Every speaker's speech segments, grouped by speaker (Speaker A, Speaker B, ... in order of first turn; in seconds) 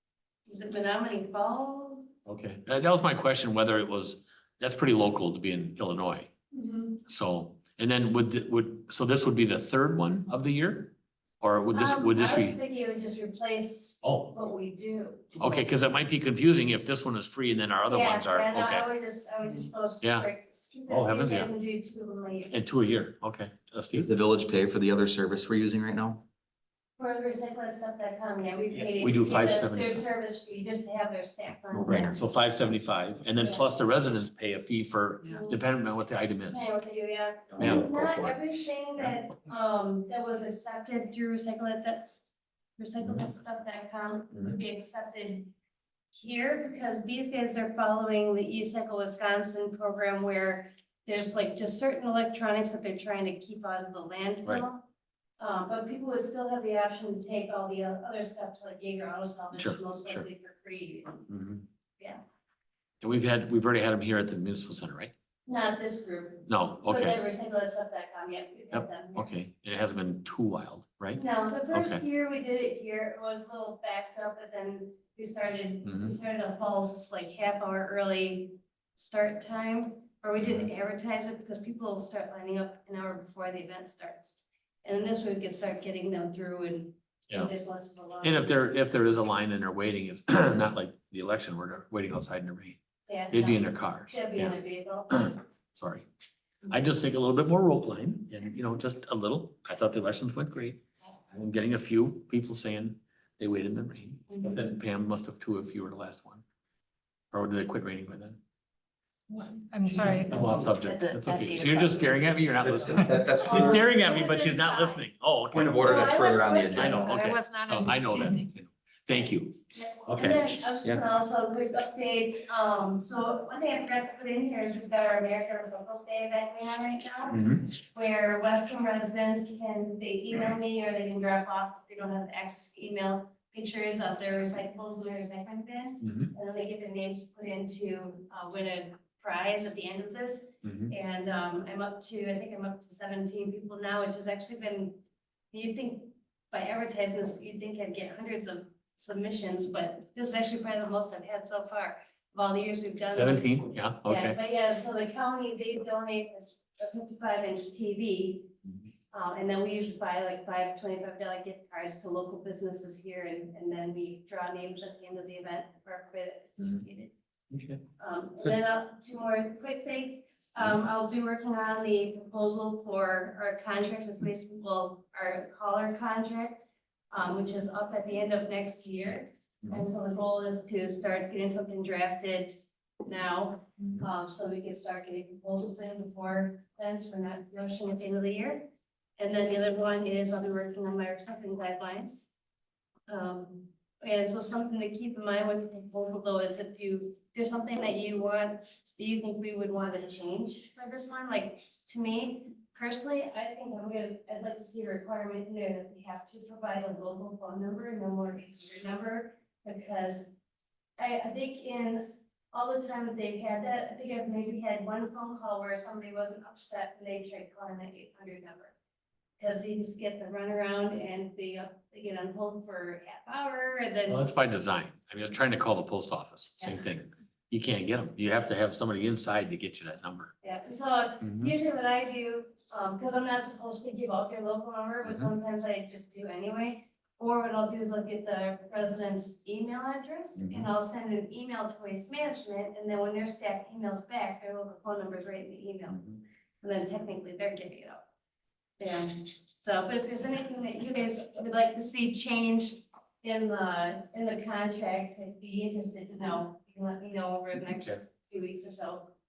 Speaker A: 0.5-2.1, 11.7-15.5, 17.9-22.6, 27.0-32.2, 35.3-35.6, 36.5-42.2, 42.8-45.5, 46.1-54.9, 55.4-61.3, 65.5-69.3, 71.1-88.5, 93.1-95.3, 104.3-104.6, 113.3-115.0, 115.8-117.4, 119.8-158.5, 159.1-167.1, 168.0-192.3, 193.1-210.3, 211.0-218.8, 219.4-224.3, 226.6-226.9, 230.4-246.0, 246.6-248.0, 248.8-259.1
Speaker B: 2.3-6.3, 7.0-12.6, 14.0-14.3, 15.4-18.9, 20.0-20.3, 20.9-21.5, 22.5-24.1, 28.7-30.0, 31.8-36.7, 37.6-38.4, 59.5-60.3, 61.3-61.6, 63.0-65.1, 66.5-67.2, 68.7-72.0, 75.8-76.2, 80.4-80.7, 88.2-96.1, 96.7-106.4, 107.3-108.4, 109.9-116.2, 116.7-121.0, 127.3-127.6, 136.0-136.3, 140.6-140.9, 153.1-154.4, 167.5-167.8, 224.1-230.3, 231.2-231.6, 235.0-235.3, 240.4-240.7, 245.9-246.2
Speaker C: 23.9-26.2, 31.8-32.2, 37.6-38.1, 112.6-113.8, 115.5-117.0
Speaker D: 109.3-112.2, 117.1-118.5